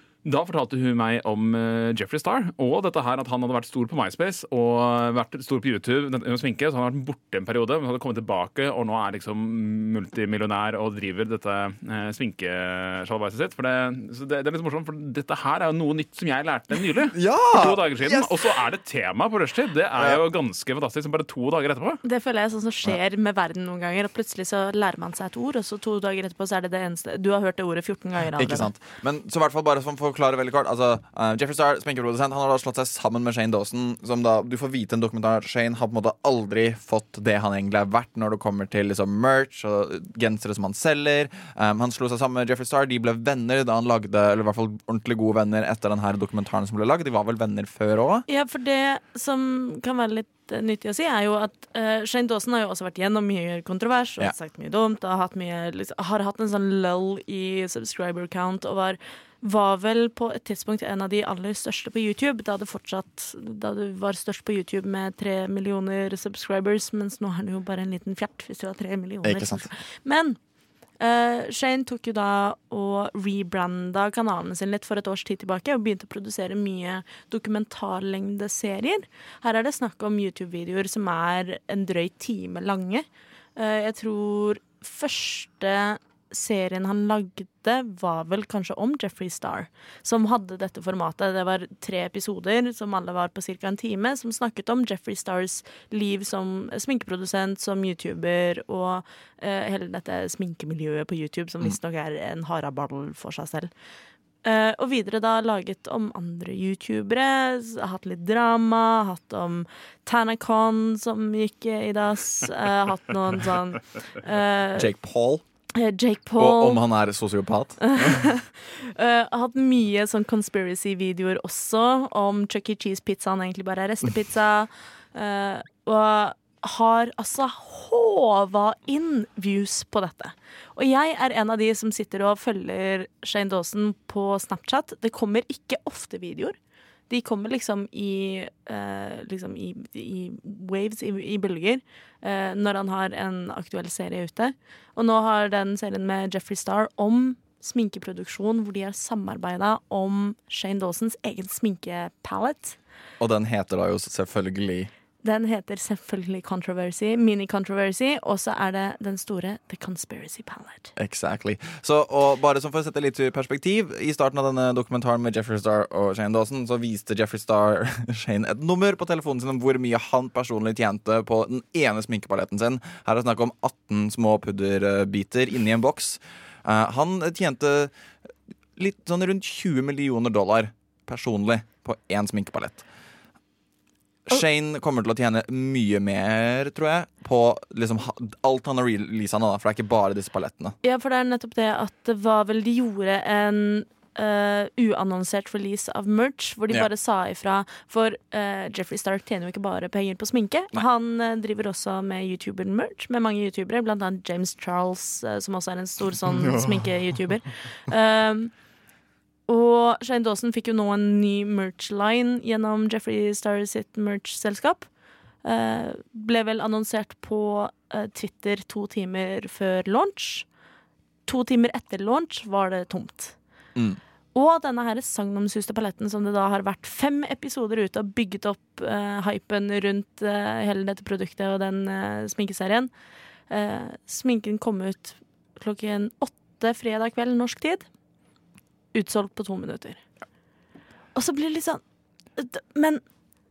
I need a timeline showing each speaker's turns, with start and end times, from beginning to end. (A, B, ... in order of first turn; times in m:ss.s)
0:00.2-0:22.0 A
0:17.1-0:18.5 B
0:22.0-0:28.7 C
0:28.4-0:48.2 B
0:48.3-1:10.4 C
1:09.2-1:09.7 B
1:11.0-1:43.7 C
1:44.4-1:54.9 C
1:54.8-1:55.4 B
1:55.8-1:56.8 C
1:56.4-1:58.3 B
1:57.8-2:16.6 C
2:17.1-2:32.8 C
2:33.2-2:34.9 B
2:35.2-2:40.9 C
2:41.0-2:57.9 B
2:58.8-3:02.8 B
3:04.3-3:10.8 B
3:10.8-3:28.5 C
3:26.2-3:27.1 B
3:29.5-3:34.9 C
3:35.4-3:40.5 C
3:41.3-3:43.4 C
3:44.3-3:52.9 C
3:53.5-3:57.9 C
3:58.9-4:00.0 C
4:01.2-4:01.8 C
4:02.4-4:03.0 C